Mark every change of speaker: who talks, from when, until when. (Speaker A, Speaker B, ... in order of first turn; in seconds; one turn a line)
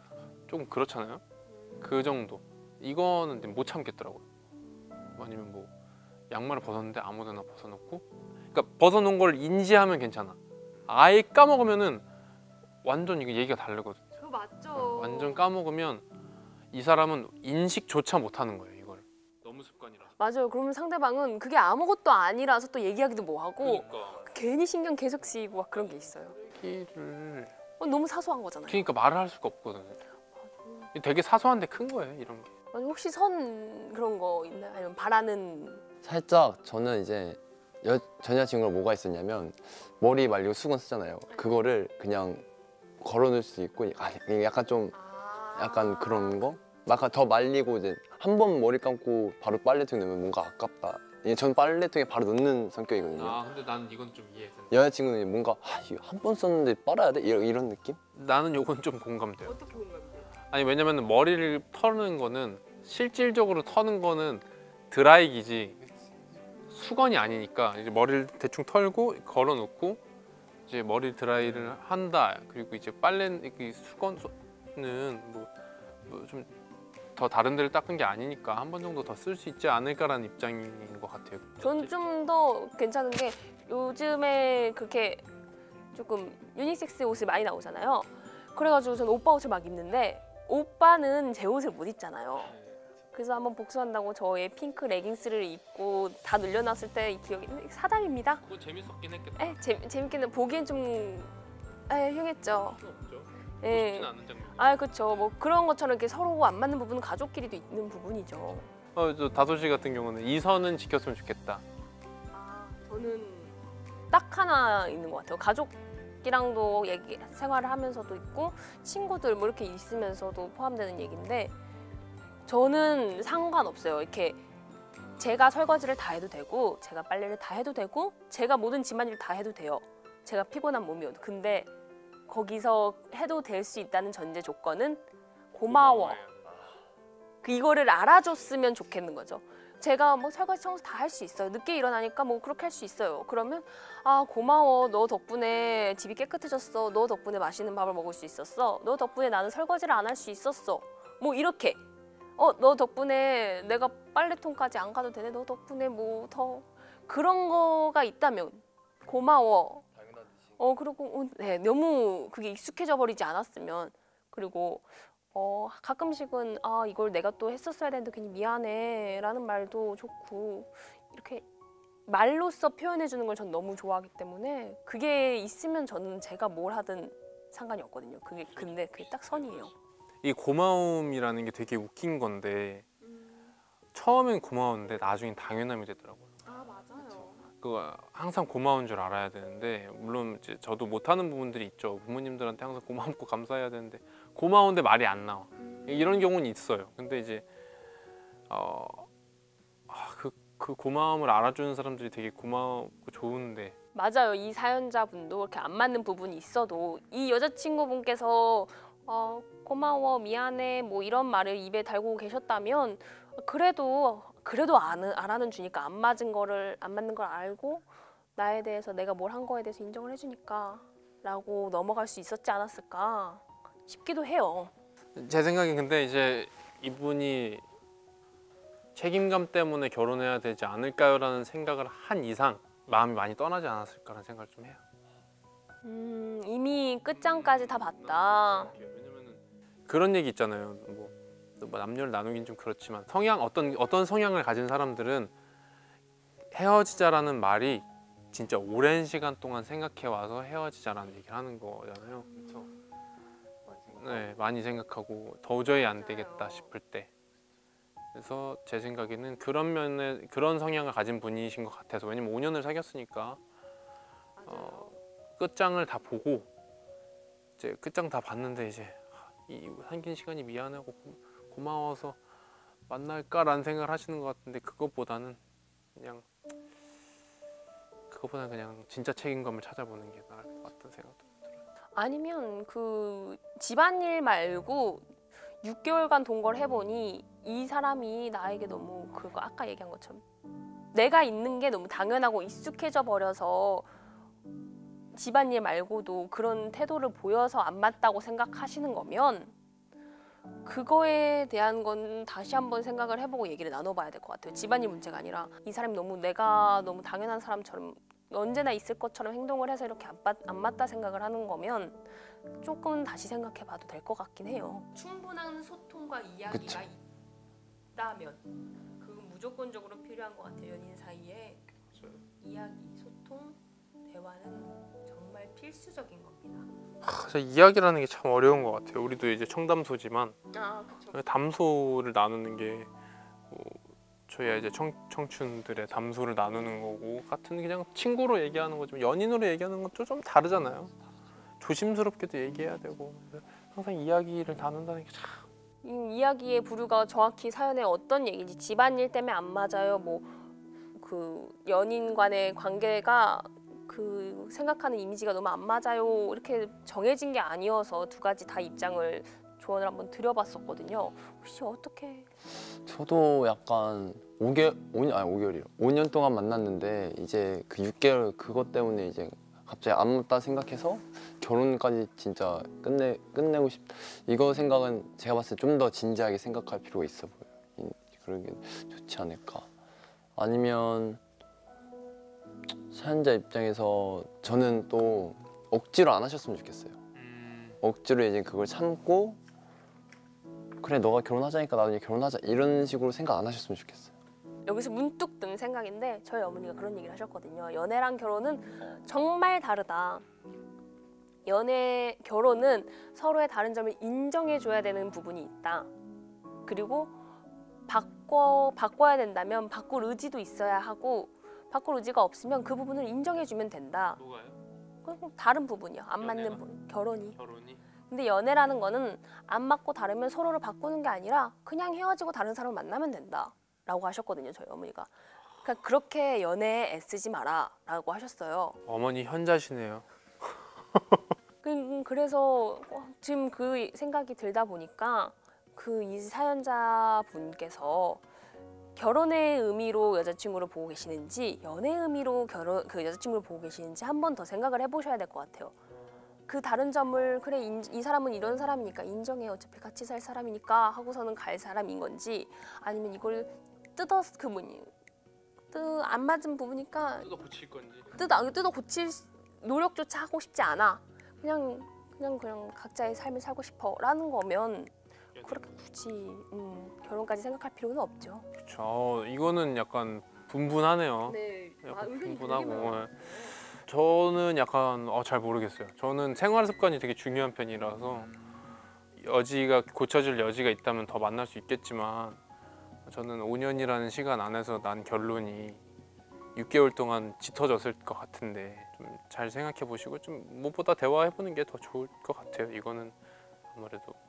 Speaker A: 0.5-1.2
Speaker B: 1.5-1.9
Speaker A: 1.8-4.2
Speaker A: 5.2-5.7
Speaker A: 6.3-10.4
Speaker A: 10.9-12.1
Speaker A: 12.8-14.0
Speaker B: 14.2-15.4
Speaker A: 14.7-16.1
Speaker A: 16.7-20.2
Speaker B: 20.2-26.4
Speaker A: 23.6-24.3
Speaker A: 25.2-27.5
Speaker B: 27.8-28.9
Speaker A: 28.7-30.0
Speaker B: 30.4-30.9
Speaker A: 30.9-32.5
Speaker B: 32.7-35.8
Speaker C: 36.0-42.5
Speaker B: 41.3-41.6
Speaker C: 43.0-45.0
Speaker B: 44.9-46.6
Speaker C: 45.5-53.4
Speaker A: 53.1-54.8
Speaker C: 54.7-58.0
Speaker A: 58.1-59.8
Speaker B: 59.4-60.3
Speaker A: 60.4-65.8
Speaker A: 66.7-70.0
Speaker A: 70.7-75.5
Speaker A: 76.1-76.5
Speaker A: 77.2-81.9
Speaker B: 81.6-85.2
Speaker B: 85.9-92.5
Speaker A: 92.4-92.8
Speaker B: 93.1-98.5
Speaker A: 98.4-99.6
Speaker B: 99.4-101.4
Speaker B: 101.9-102.8
Speaker A: 102.7-104.9
Speaker B: 103.6-108.7
Speaker A: 108.9-111.6
Speaker B: 112.3-113.6
Speaker B: 114.1-121.5
Speaker B: 122.5-124.4
Speaker B: 125.2-131.7
Speaker B: 132.3-136.2
Speaker A: 135.7-136.6
Speaker B: 137.4-151.8
Speaker B: 152.4-159.9
Speaker B: 160.6-171.4
Speaker B: 172.1-179.7
Speaker A: 179.3-179.7
Speaker A: 180.2-182.8
Speaker B: 183.0-183.4
Speaker A: 183.9-186.3
Speaker B: 186.4-187.5
Speaker A: 187.5-197.4
Speaker B: 195.7-196.2
Speaker A: 198.5-199.1
Speaker A: 199.9-203.8
Speaker B: 203.9-224.7
Speaker A: 225.2-227.7
Speaker A: 228.9-234.8
Speaker B: 235.8-238.7
Speaker A: 237.2-245.3
Speaker A: 246.5-252.3
Speaker B: 252.4-252.7
Speaker A: 253.9-257.1
Speaker B: 255.9-256.7
Speaker A: 258.1-263.4
Speaker B: 264.4-265.0
Speaker A: 264.5-266.5
Speaker A: 267.6-272.2
Speaker A: 272.9-275.4
Speaker A: 275.9-276.2
Speaker A: 278.1-281.6
Speaker B: 281.9-285.1
Speaker B: 285.6-290.2
Speaker B: 290.9-293.9
Speaker B: 295.1-299.5
Speaker B: 300.6-317.0
Speaker C: 316.5-316.8
Speaker B: 317.9-318.4
Speaker B: 319.0-321.6
Speaker A: 321.9-322.2
Speaker B: 322.4-326.7
Speaker A: 327.0-330.4
Speaker B: 330.5-331.2
Speaker A: 331.1-332.9
Speaker A: 333.5-340.9
Speaker A: 341.6-345.5
Speaker B: 345.8-350.4
Speaker B: 350.9-362.3
Speaker C: 362.9-379.7
Speaker C: 380.4-381.2
Speaker C: 382.9-387.0
Speaker A: 387.2-387.8
Speaker C: 387.8-389.4
Speaker C: 390.8-394.1
Speaker B: 394.7-400.2
Speaker B: 401.4-405.9
Speaker B: 406.7-407.2
Speaker B: 407.9-414.2
Speaker A: 414.2-414.6
Speaker B: 415.0-417.4
Speaker A: 416.2-416.6
Speaker A: 417.4-417.8
Speaker B: 418.1-425.1
Speaker B: 425.6-428.8
Speaker A: 428.9-430.1
Speaker B: 431.6-438.2
Speaker B: 439.0-445.8
Speaker B: 446.5-454.9
Speaker B: 455.7-457.4
Speaker A: 457.2-458.1
Speaker B: 458.1-468.5
Speaker A: 465.4-465.7
Speaker A: 468.6-478.3
Speaker B: 471.3-473.6
Speaker A: 479.2-482.4
Speaker A: 483.1-485.8
Speaker A: 486.6-493.1
Speaker A: 493.7-494.2